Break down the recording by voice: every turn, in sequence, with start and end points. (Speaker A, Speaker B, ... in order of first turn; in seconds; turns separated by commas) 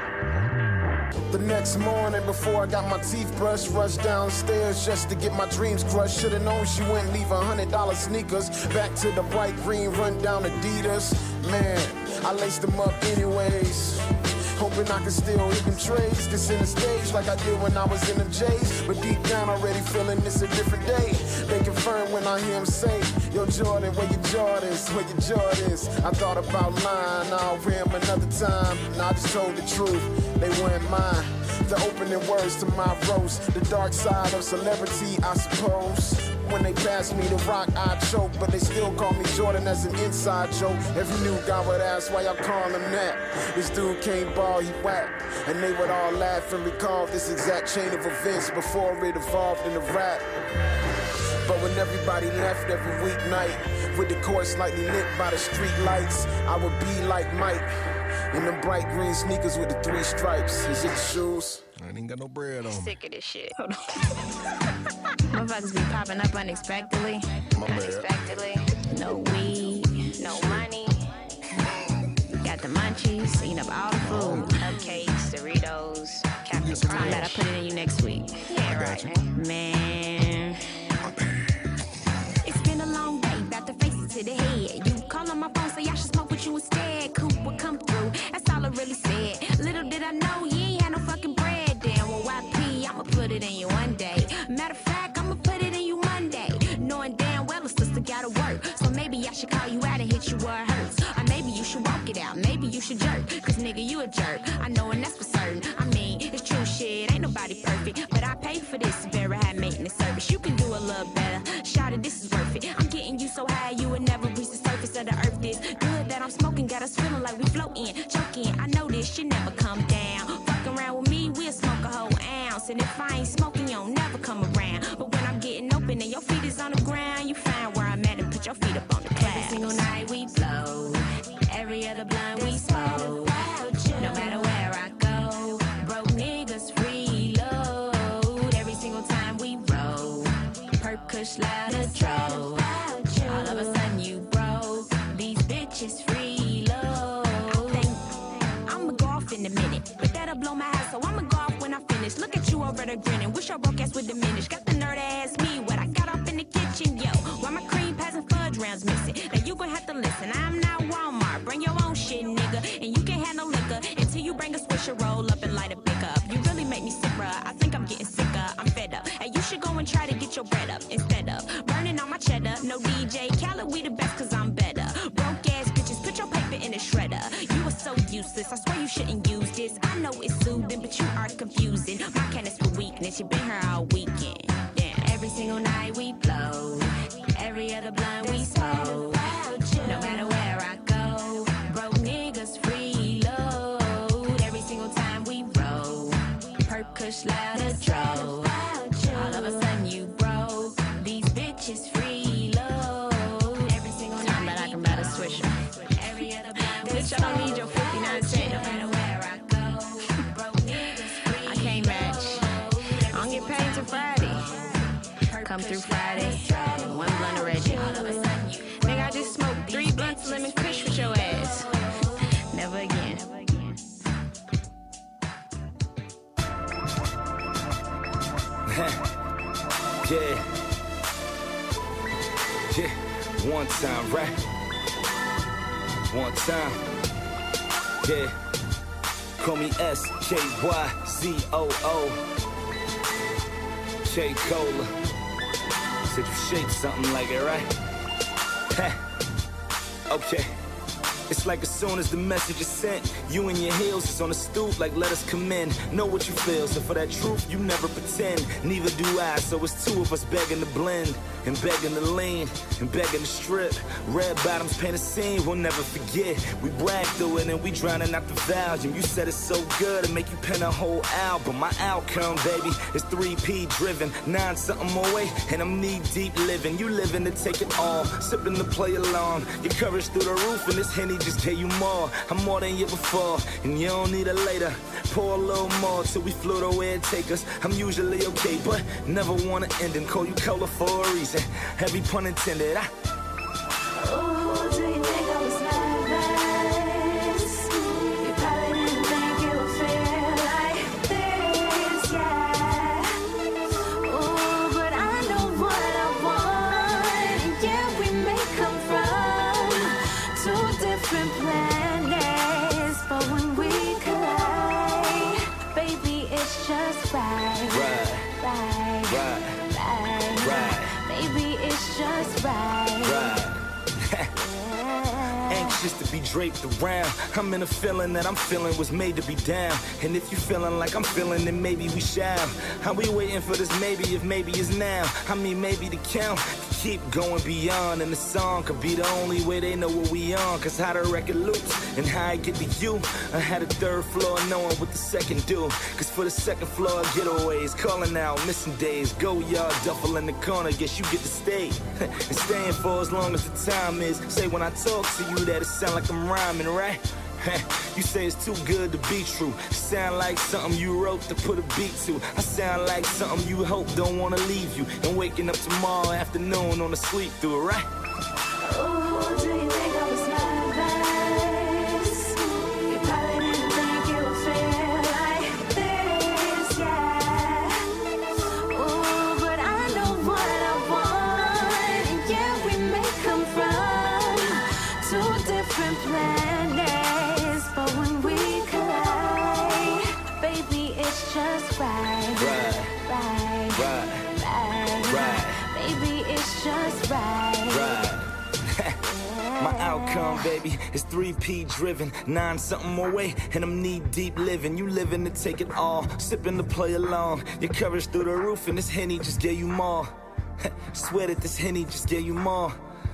Speaker A: 1.3-50.2, Speaker A: 51.4-57.7, Speaker A: 58.3-61.6, Speaker B: 61.8-63.0, Speaker C: 62.7-63.7, Speaker C: 65.3-70.9, Speaker B: 67.6-68.1, Speaker B: 70.3-70.7, Speaker C: 72.4-80.6, Speaker B: 74.0-75.0, Speaker B: 76.5-77.5, Speaker B: 78.6-79.2, Speaker C: 82.4-221.7, Speaker D: 129.3-129.6, Speaker D: 132.4-133.2, Speaker D: 134.0-134.5, Speaker D: 141.7-142.6, Speaker D: 143.2-143.7, Speaker D: 188.2-190.3, Speaker D: 197.7-198.5, Speaker D: 199.0-199.7, Speaker D: 206.9-208.9, Speaker D: 215.8-218.2, Speaker C: 222.5-223.8, Speaker E: 228.7-229.0, Speaker E: 230.0-230.4, Speaker E: 232.7-234.4, Speaker E: 236.1-236.8, Speaker E: 238.0-238.3, Speaker E: 239.4-242.2, Speaker E: 244.0-244.9, Speaker E: 246.1-247.7, Speaker E: 248.7-249.0, Speaker E: 250.1-250.5, Speaker E: 251.3-292.9, Speaker D: 293.9-303.2, Speaker D: 304.0-323.4, Speaker E: 317.7-318.3, Speaker E: 319.1-319.6, Speaker E: 320.4-320.9, Speaker E: 323.0-324.3, Speaker D: 324.4-325.9, Speaker E: 325.5-367.9, Speaker D: 368.6-377.9, Speaker D: 378.7-398.0, Speaker E: 392.3-392.9, Speaker E: 393.7-394.2, Speaker E: 395.1-395.6, Speaker E: 397.7-399.0, Speaker D: 399.3-400.4, Speaker E: 399.6-410.1, Speaker E: 410.6-412.8